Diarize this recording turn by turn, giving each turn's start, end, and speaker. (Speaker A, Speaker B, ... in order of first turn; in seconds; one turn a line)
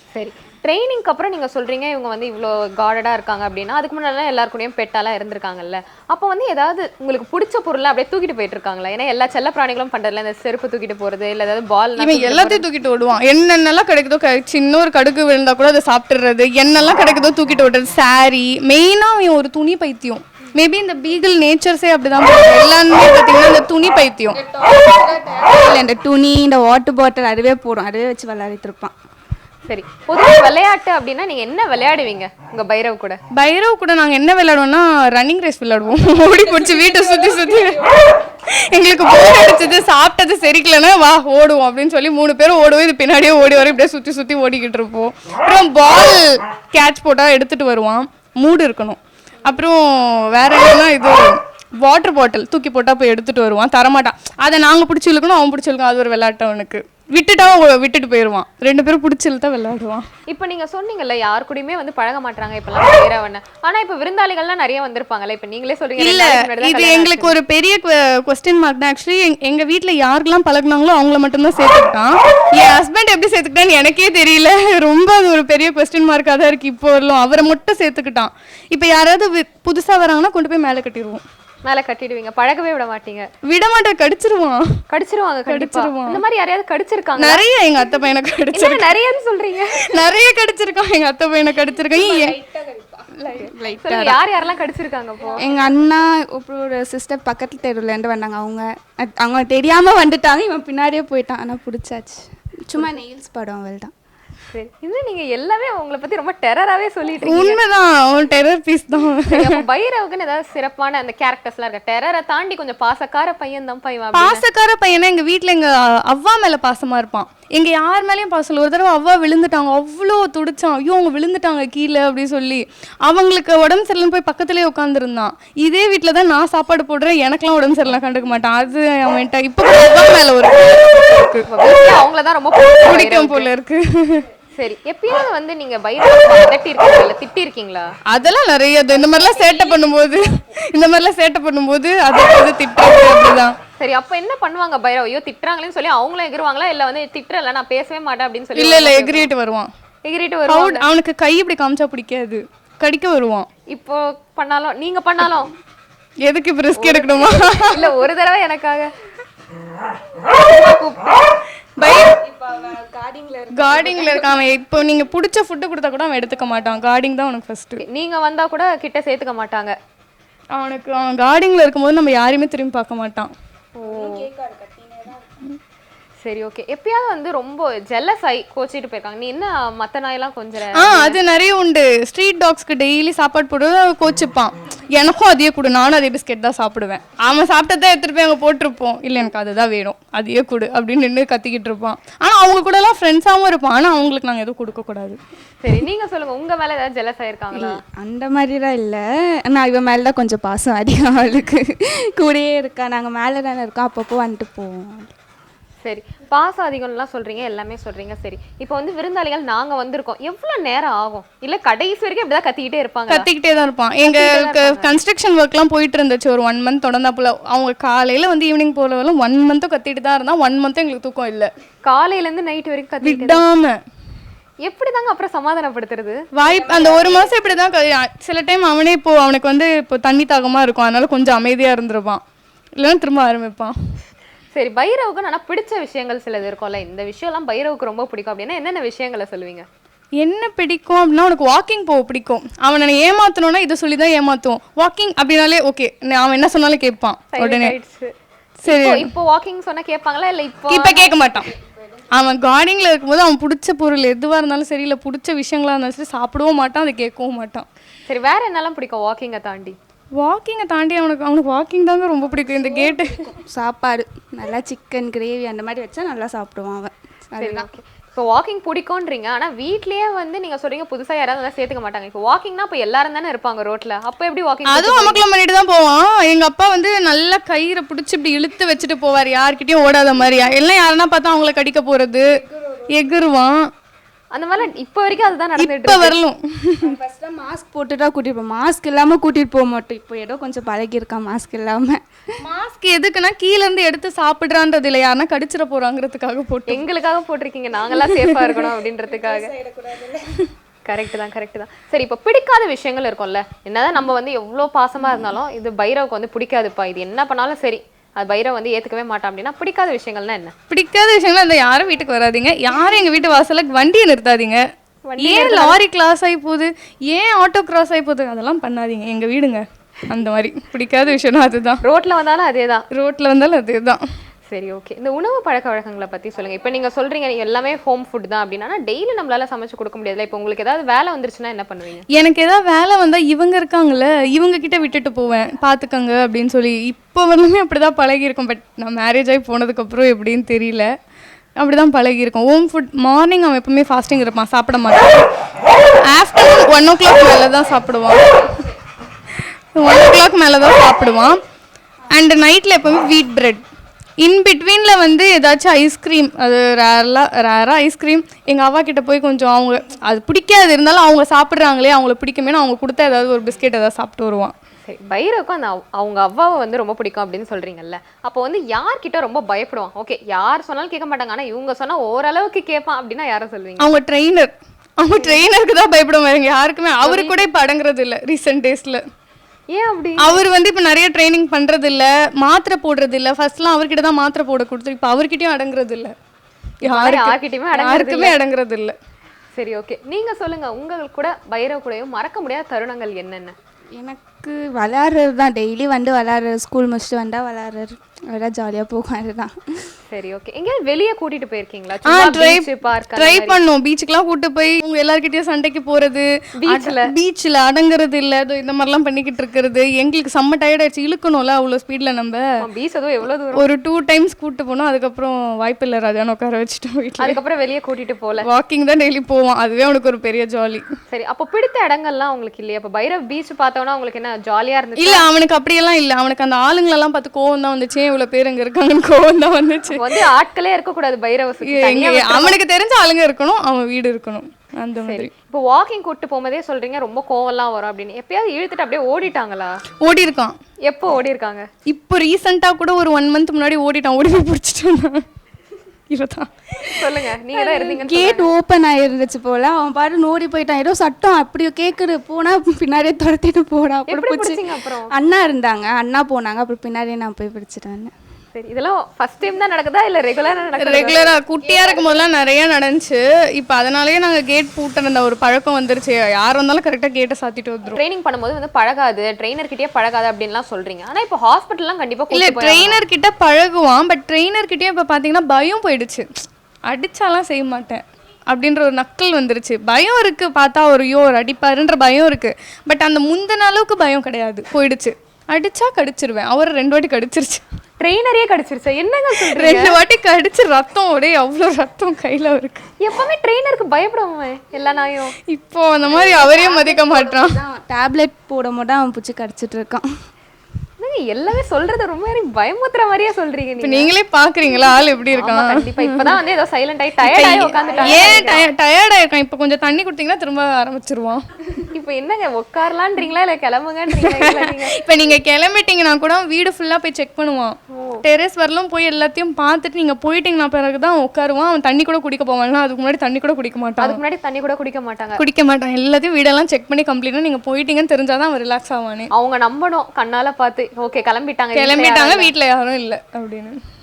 Speaker A: 0.1-12.6
Speaker B: 12.0-24.4
Speaker C: 24.3-28.9
Speaker A: 29.7-33.2
Speaker B: 33.3-60.1
Speaker C: 36.1-38.0
Speaker A: 60.3-67.4
Speaker B: 66.0-81.2
Speaker A: 81.7-83.3
Speaker B: 83.4-84.8
Speaker A: 84.9-87.4
Speaker B: 85.5-86.2
Speaker B: 87.2-88.9
Speaker A: 88.5-89.9
Speaker B: 89.8-92.4
Speaker C: 91.9-94.2
Speaker A: 93.3-95.4
Speaker C: 95.4-103.9
Speaker A: 104.5-107.6
Speaker B: 107.2-109.6
Speaker A: 109.3-114.4
Speaker B: 114.1-131.9
Speaker A: 131.5-133.5
Speaker B: 132.8-134.3
Speaker A: 134.5-137.9
Speaker B: 138.1-143.5
Speaker A: 143.8-149.3
Speaker B: 148.6-149.7
Speaker A: 150.0-150.8
Speaker B: 150.5-153.5
Speaker A: 153.7-155.5
Speaker B: 156.2-157.9
Speaker A: 156.8-158.9
Speaker A: 160.2-161.3
Speaker B: 161.8-162.2
Speaker C: 162.2-164.4
Speaker B: 163.5-167.8
Speaker A: 167.8-169.8
Speaker B: 170.5-173.3
Speaker A: 173.8-174.3
Speaker C: 173.8-175.3
Speaker A: 176.2-181.2
Speaker B: 180.7-195.2
Speaker A: 195.6-197.8
Speaker C: 197.5-205.1
Speaker A: 205.8-213.3
Speaker B: 213.1-221.5
Speaker A: 214.0-214.9
Speaker A: 221.8-223.4
Speaker B: 223.0-223.8
Speaker A: 224.6-227.2
Speaker B: 226.3-232.2
Speaker C: 226.6-227.3
Speaker B: 232.8-233.7
Speaker A: 234.5-239.7
Speaker B: 240.2-247.7
Speaker A: 247.3-248.1
Speaker B: 248.6-249.1
Speaker A: 248.6-251.2
Speaker B: 250.7-251.5
Speaker B: 252.1-257.7
Speaker A: 258.1-259.8
Speaker B: 260.1-263.3
Speaker C: 262.4-267.7
Speaker A: 267.4-275.2
Speaker B: 274.6-282.2
Speaker C: 282.5-282.9
Speaker B: 282.9-283.7
Speaker A: 284.3-286.1
Speaker B: 285.6-286.9
Speaker C: 286.8-292.0
Speaker B: 292.4-296.8
Speaker A: 296.7-299.5
Speaker B: 298.0-298.6
Speaker C: 299.1-300.5
Speaker A: 300.8-310.5
Speaker B: 310.7-314.6
Speaker A: 315.1-315.8
Speaker B: 315.2-321.8
Speaker A: 321.8-322.9
Speaker B: 322.9-324.0
Speaker A: 324.5-332.1
Speaker B: 332.1-340.9
Speaker B: 341.6-345.2
Speaker B: 346.1-348.4
Speaker B: 349.7-351.4
Speaker B: 352.1-353.6
Speaker B: 354.2-364.5
Speaker A: 364.9-373.9
Speaker B: 373.8-379.0
Speaker A: 375.1-375.4
Speaker A: 377.0-377.4
Speaker A: 379.7-380.4
Speaker B: 380.2-386.1
Speaker B: 386.8-388.9
Speaker A: 386.9-388.3
Speaker A: 389.6-393.6
Speaker C: 393.9-399.9
Speaker A: 400.1-403.6
Speaker B: 402.0-412.4
Speaker A: 406.6-407.1
Speaker A: 412.6-413.6
Speaker B: 413.5-417.4
Speaker A: 417.2-418.5
Speaker B: 418.4-420.8
Speaker A: 421.1-425.2
Speaker B: 425.0-430.2
Speaker A: 429.9-432.6
Speaker B: 431.6-435.3
Speaker A: 435.0-439.8
Speaker B: 440.0-440.5
Speaker A: 440.8-441.7
Speaker B: 441.9-445.2
Speaker B: 446.1-447.2
Speaker A: 446.8-448.5
Speaker C: 447.6-458.1
Speaker A: 454.1-455.1
Speaker A: 458.5-461.3
Speaker B: 460.8-468.0
Speaker A: 467.9-473.0
Speaker B: 472.3-476.3
Speaker B: 476.9-487.6
Speaker A: 488.0-490.0
Speaker B: 489.4-492.9
Speaker A: 493.0-495.4
Speaker B: 495.4-497.6
Speaker C: 496.2-500.0
Speaker A: 501.0-504.1
Speaker B: 503.8-506.4
Speaker A: 505.3-508.6
Speaker B: 507.2-511.8
Speaker C: 507.8-508.6
Speaker A: 511.9-515.0
Speaker B: 514.1-524.2
Speaker A: 517.9-518.2
Speaker A: 524.0-525.4
Speaker B: 525.4-529.3
Speaker A: 529.3-532.5
Speaker B: 531.7-533.8